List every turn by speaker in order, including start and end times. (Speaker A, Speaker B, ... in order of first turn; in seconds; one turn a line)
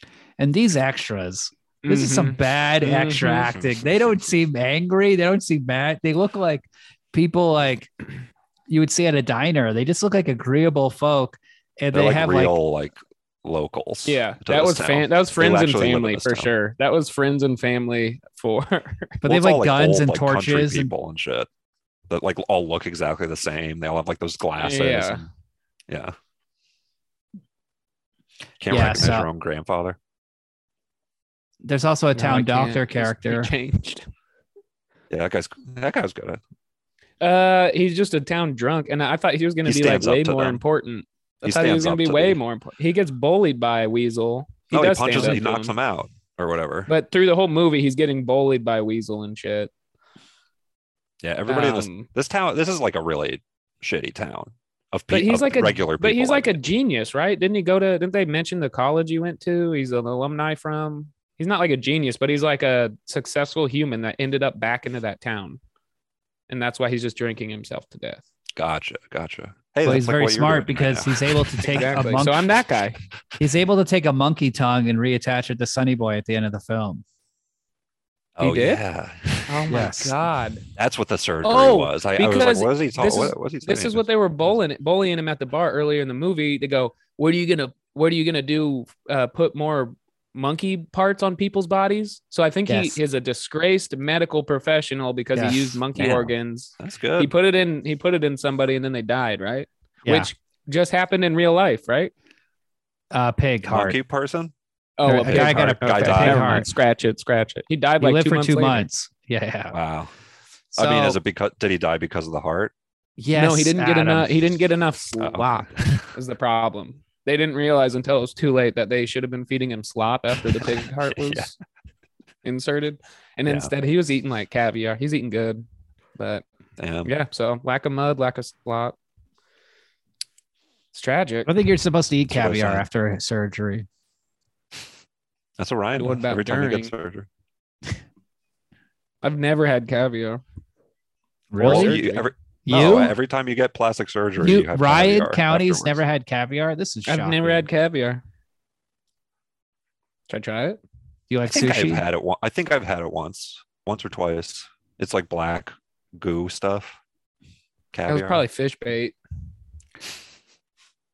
Speaker A: 0.4-7.9
Speaker B: 1.8-3.5
Speaker C: 3.5-3.8
Speaker A: 8.7-12.6
Speaker C: 11.9-16.5
Speaker B: 14.1-19.2
Speaker A: 19.2-20.9
Speaker C: 19.2-21.5
Speaker C: 22.1-25.3
Speaker B: 24.6-25.2
Speaker C: 25.9-26.2
Speaker C: 28.6-30.0
Speaker A: 28.7-29.3
Speaker A: 31.6-33.5
Speaker B: 32.1-34.1
Speaker C: 35.1-36.4
Speaker B: 37.2-45.7
Speaker C: 39.6-40.6
Speaker C: 41.4-42.4
Speaker C: 44.7-46.9
Speaker B: 46.9-49.7
Speaker C: 51.2-56.6
Speaker B: 51.5-52.1
Speaker B: 55.1-65.6
Speaker B: 66.5-68.2
Speaker C: 68.6-72.0
Speaker A: 69.8-72.5
Speaker B: 71.7-73.0
Speaker A: 73.4-77.0
Speaker C: 78.4-79.6
Speaker B: 78.4-78.8
Speaker B: 79.5-80.7
Speaker A: 79.7-80.2
Speaker C: 80.8-84.1
Speaker B: 81.4-102.1
Speaker A: 92.7-93.0
Speaker A: 95.3-95.8
Speaker C: 96.0-97.3
Speaker A: 103.1-104.0
Speaker C: 103.7-104.5
Speaker B: 105.0-108.9
Speaker A: 105.0-106.7
Speaker C: 105.2-106.7
Speaker A: 108.0-109.8
Speaker C: 109.7-110.1
Speaker A: 110.7-111.2
Speaker C: 110.8-112.7
Speaker A: 113.2-114.3
Speaker B: 113.3-121.5
Speaker C: 115.2-116.1
Speaker C: 120.6-121.5
Speaker B: 122.4-125.6
Speaker C: 123.5-123.7
Speaker B: 126.2-126.4
Speaker C: 126.8-127.1
Speaker B: 127.0-129.0
Speaker B: 130.9-131.5
Speaker A: 131.5-133.9
Speaker C: 132.3-132.8
Speaker C: 135.6-137.3
Speaker B: 136.0-136.9
Speaker B: 139.2-140.4
Speaker A: 141.5-142.0
Speaker B: 141.6-142.3
Speaker C: 141.6-146.0
Speaker A: 142.7-143.2
Speaker A: 144.4-147.7
Speaker B: 147.1-148.2
Speaker B: 150.3-150.8
Speaker A: 151.3-152.1
Speaker C: 151.5-157.0
Speaker C: 157.9-158.4
Speaker B: 158.1-159.2